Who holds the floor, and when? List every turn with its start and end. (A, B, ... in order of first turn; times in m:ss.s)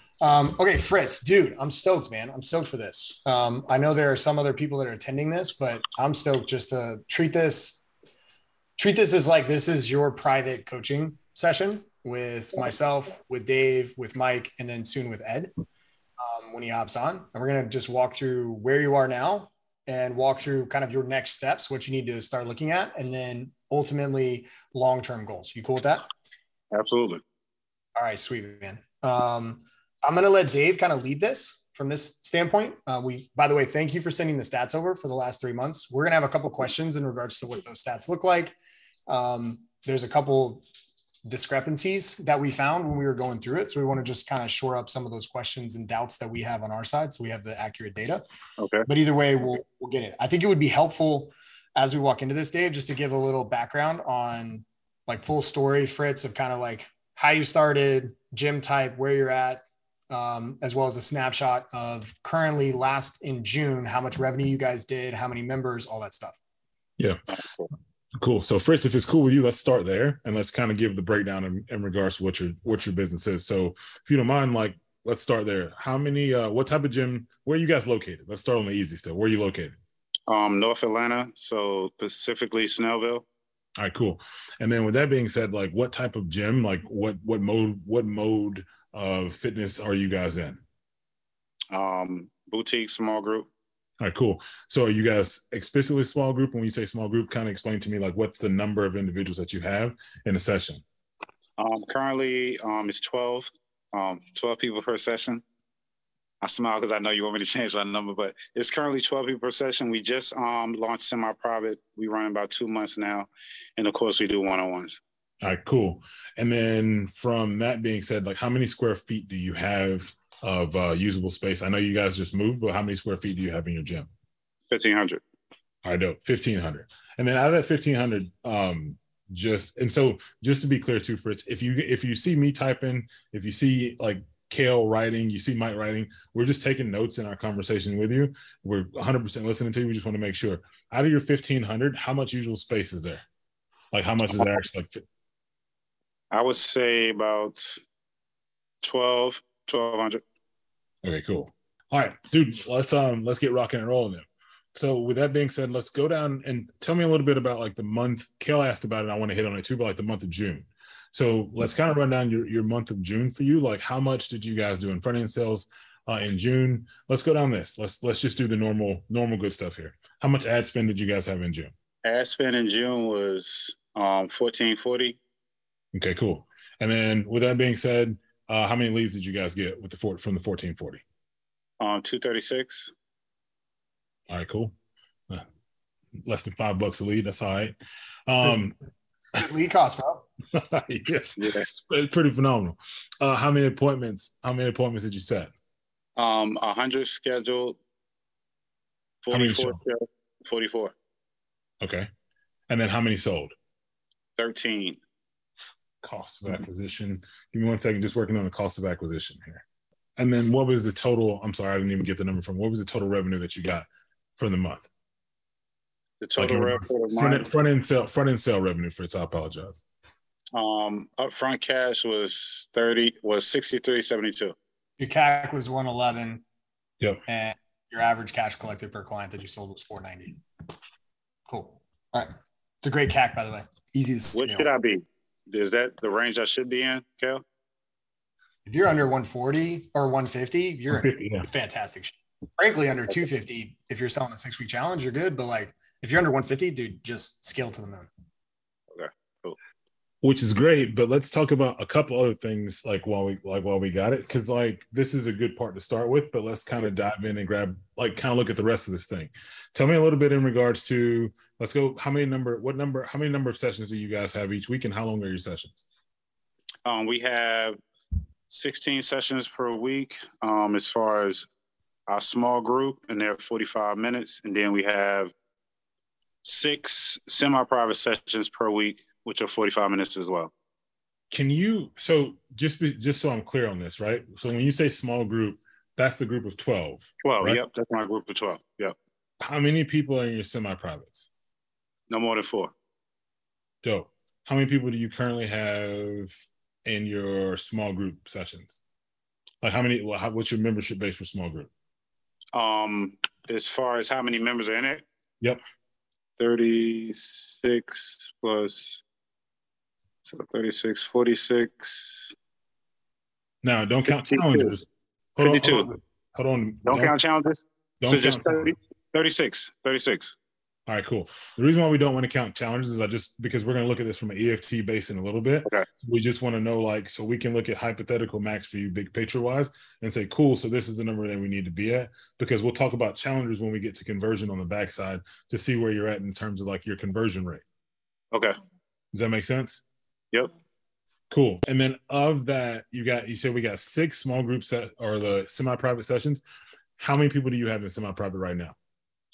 0:00.2-0:07.8 A
0:08.8-0:15.5 A
0:16.2-0:26.1 A
0:26.7-0:27.2 B
0:28.0-0:38.6 A
0:39.1-0:40.6 A
0:41.2-0:48.2 A
0:48.6-0:48.8 B
0:48.9-1:06.4 A
1:07.0-1:07.2 C
1:07.3-1:07.7 B
1:08.2-1:19.8 C
1:20.3-1:23.2 B
1:23.8-1:30.6 C
1:31.7-1:33.5 B
1:34.0-1:40.8 C
1:41.6-1:45.4 B
1:46.4-1:55.0 B
1:55.4-2:04.1 C
2:04.7-2:05.2 B
2:05.8-2:23.2 C
2:23.9-2:25.0 C
2:26.3-2:27.8 B
2:28.8-2:30.2 B
2:31.0-2:51.7 C
2:52.0-2:55.2 B
2:55.9-3:01.0 C
3:01.8-3:02.9 B
3:04.3-3:04.7 C
3:06.2-3:08.8 C
3:09.3-3:10.3 A
3:10.5-3:15.5 C
3:11.4-3:11.7 B
3:16.2-3:17.8 B
3:19.2-3:20.9 B
3:19.3-3:19.8 C
3:21.8-3:22.1 C
3:22.7-3:23.5 C
3:24.4-3:25.0 B
3:26.0-3:29.6 C
3:30.2-3:33.9 C
3:34.4-3:34.9 C
3:36.2-3:37.5 B
3:36.4-3:39.8 C
3:40.5-3:44.5 B
3:45.0-3:46.4 A
3:47.3-3:50.4 A
3:51.5-3:52.3 A
3:52.8-3:54.7 A
3:54.3-3:57.4 B
3:58.6-4:08.1 A
4:00.9-4:01.4 C
4:08.9-4:09.6 B
4:10.2-4:25.9 C
4:26.8-4:27.8 B
4:28.5-4:31.5 B
4:32.1-4:35.3 B
4:36.4-4:40.5 B
4:41.3-4:47.6 C
4:47.2-4:48.9 B
4:49.4-4:51.3 C
4:52.1-4:52.7 B
4:53.8-4:58.8 C
4:59.6-5:01.7 C
5:02.5-5:05.0 B
5:06.4-5:09.0 B
5:10.2-5:12.3 B
5:13.6-5:14.8 C
5:14.1-5:14.7 B
5:15.4-5:17.1 C
5:15.4-5:15.9 B
5:16.8-5:20.3 B
5:18.0-5:18.7 C
5:20.9-5:37.6 C
5:38.3-5:38.6 B
5:39.1-5:39.8 C
5:41.3-5:46.4 C
5:47.0-5:48.8 C